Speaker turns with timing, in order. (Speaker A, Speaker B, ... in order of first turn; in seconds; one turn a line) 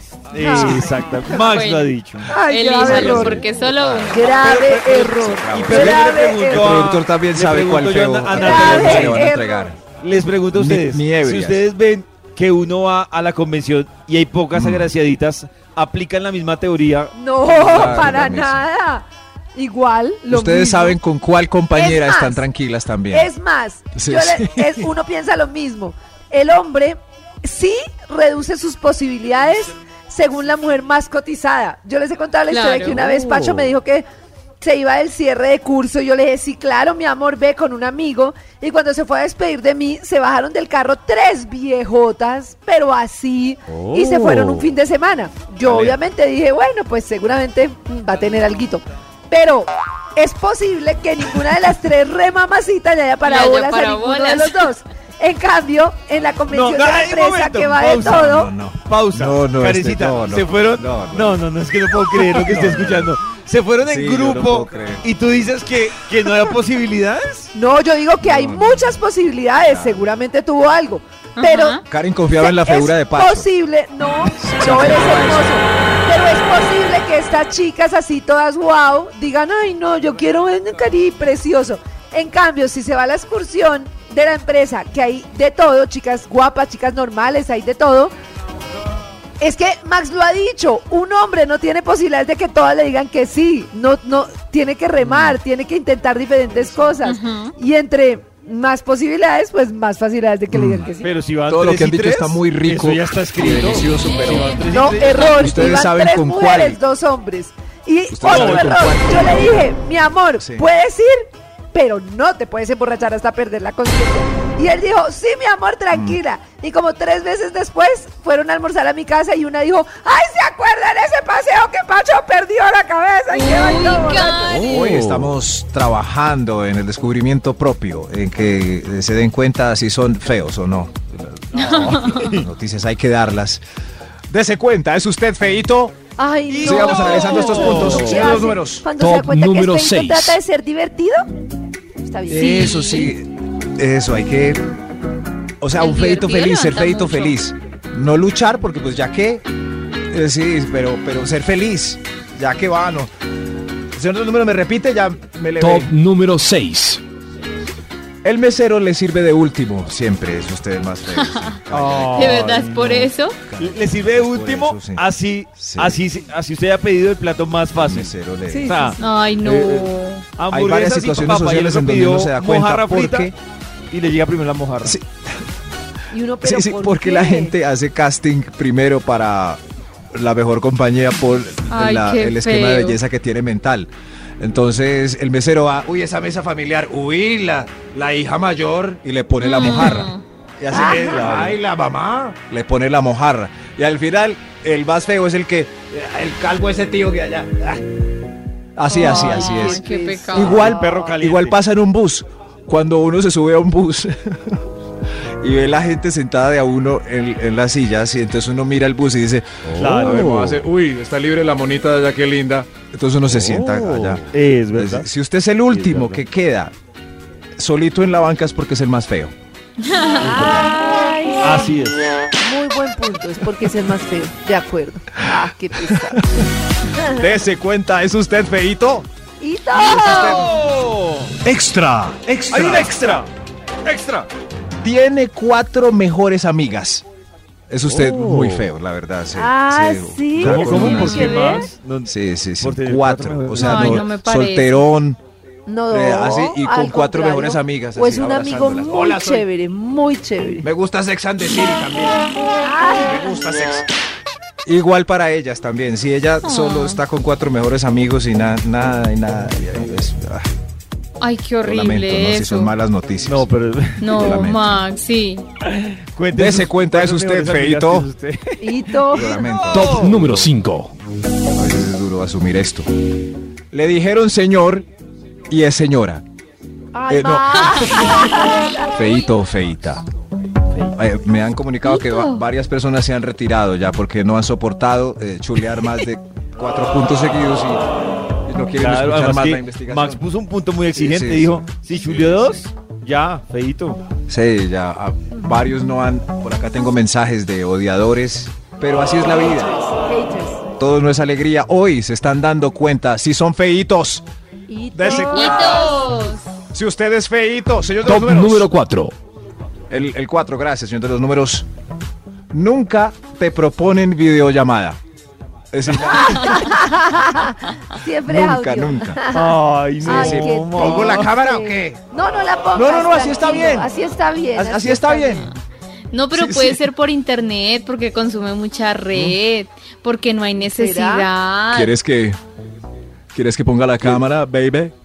Speaker A: 0.3-2.4
Speaker B: 0.3-0.9
Speaker C: 1.4-1.9
Speaker B: 2.3-3.4
Speaker C: 2.5-4.3
Speaker D: 2.8-4.2
Speaker B: 4.1-6.9
Speaker A: 4.2-9.3
Speaker D: 5.3-9.8
Speaker B: 8.3-9.7
Speaker A: 10.0-18.1
Speaker D: 10.5-11.6
Speaker D: 14.5-14.9
Speaker B: 17.1-21.0
Speaker D: 17.5-18.6
Speaker D: 20.3-23.3
Speaker B: 21.7-22.5
Speaker B: 23.1-34.0
Speaker D: 24.0-24.9
Speaker C: 32.5-33.0
Speaker B: 34.6-58.5
Speaker A: 43.7-44.1
Speaker D: 45.6-46.0
Speaker C: 53.2-54.7
Speaker A: 56.5-58.3
Speaker D: 58.0-61.4
Speaker A: 58.9-67.5
Speaker D: 62.1-63.1
Speaker D: 63.8-65.1
Speaker B: 67.5-71.8
Speaker D: 68.2-69.0
Speaker D: 69.6-70.0
Speaker C: 71.4-71.8
Speaker D: 71.9-73.5
Speaker B: 72.3-88.1
Speaker D: 74.2-75.6
Speaker B: 89.4-101.1
Speaker D: 95.0-95.4
Speaker C: 97.0-97.5
Speaker D: 100.5-100.9
Speaker A: 101.0-105.8
Speaker D: 101.5-104.5
Speaker B: 104.7-124.6
Speaker D: 105.3-106.8
Speaker D: 108.1-109.7
Speaker A: 108.2-109.0
Speaker D: 110.4-110.7
Speaker D: 115.9-116.2
Speaker C: 123.3-124.9
Speaker E: 124.5-125.3
Speaker D: 124.5-133.6
Speaker A: 131.5-132.5
Speaker C: 131.6-132.3
Speaker D: 134.3-136.0
Speaker B: 136.2-141.2
Speaker A: 136.5-138.4
Speaker D: 136.6-138.9
Speaker E: 138.9-140.4
Speaker B: 142.0-143.0
Speaker D: 142.3-144.6
Speaker C: 142.3-143.1
Speaker D: 145.6-149.4
Speaker C: 145.8-147.4
Speaker D: 150.1-153.1
Speaker D: 153.9-155.9
Speaker E: 155.6-157.0
Speaker D: 158.2-162.5
Speaker A: 161.7-168.1
Speaker C: 162.1-163.4
Speaker D: 163.5-165.1
Speaker D: 165.6-166.0
Speaker D: 167.8-168.7
Speaker B: 168.5-169.0
Speaker A: 168.7-173.3
Speaker C: 169.0-170.3
Speaker D: 170.5-173.4
Speaker A: 173.9-175.0
Speaker D: 174.8-175.1
Speaker B: 176.1-177.6
Speaker D: 176.4-179.6
Speaker D: 180.1-183.9
Speaker C: 181.7-183.0
Speaker D: 184.4-197.8
Speaker C: 189.4-190.2
Speaker B: 190.7-191.3
Speaker A: 190.8-191.6
Speaker D: 198.8-199.8
Speaker C: 198.9-200.7
Speaker B: 199.2-201.2
Speaker D: 200.3-204.6
Speaker A: 200.4-201.6
Speaker D: 205.4-216.7
Speaker A: 209.8-210.6
Speaker E: 209.8-210.4
Speaker A: 213.8-215.1
Speaker A: 215.7-216.2
Speaker D: 217.6-219.3
Speaker C: 219.8-220.3
Speaker A: 220.2-220.7
Speaker B: 220.2-221.8
Speaker D: 220.4-220.7
Speaker A: 221.4-222.0
Speaker B: 222.4-226.2
Speaker D: 225.8-226.4
Speaker D: 227.1-229.1
Speaker B: 229.4-230.4
Speaker D: 229.8-230.6
Speaker A: 229.8-231.4
Speaker D: 231.5-233.3
Speaker E: 231.5-232.8
Speaker A: 232.5-233.3
Speaker A: 233.8-234.3
Speaker D: 234.8-237.1
Speaker D: 237.7-245.2
Speaker A: 237.9-238.5
Speaker E: 238.1-238.6
Speaker B: 239.3-241.5
Speaker A: 240.4-244.1
Speaker C: 240.9-241.7
Speaker C: 243.6-244.8
Speaker B: 245.7-250.7
Speaker D: 245.9-249.5
Speaker D: 250.6-252.2
Speaker B: 252.6-253.3
Speaker D: 252.9-253.9
Speaker D: 254.7-260.5
Speaker C: 256.4-257.0
Speaker C: 261.2-262.7
Speaker D: 261.6-263.5
Speaker A: 263.2-264.2
Speaker C: 264.0-265.5
Speaker D: 264.1-264.8
Speaker A: 265.6-270.2
Speaker D: 266.3-268.1
Speaker B: 268.6-269.5
Speaker D: 269.1-270.4
Speaker E: 269.7-270.9
Speaker D: 271.5-272.9
Speaker D: 273.7-274.9
Speaker D: 275.5-276.2
Speaker B: 276.9-278.9
Speaker D: 277.1-278.3
Speaker D: 278.9-280.0
Speaker D: 280.9-287.8
Speaker C: 281.8-282.4
Speaker D: 288.5-290.2
Speaker A: 288.8-294.0
Speaker D: 290.9-292.6
Speaker D: 294.3-299.8
Speaker B: 299.2-300.7
Speaker D: 300.8-304.3
Speaker B: 304.7-305.9
Speaker D: 304.9-306.0
Speaker C: 305.1-306.4
Speaker D: 306.7-308.7
Speaker E: 308.0-309.1
Speaker D: 309.9-311.7
Speaker D: 312.5-315.0
Speaker D: 315.7-316.8
Speaker B: 316.2-325.5
Speaker D: 318.3-319.2
Speaker A: 319.3-321.3
Speaker D: 320.1-322.0
Speaker D: 322.7-323.9
Speaker D: 324.5-325.5
Speaker C: 326.1-331.9
Speaker D: 326.3-326.8
Speaker B: 330.7-331.3
Speaker D: 331.7-332.4
Speaker D: 333.3-334.9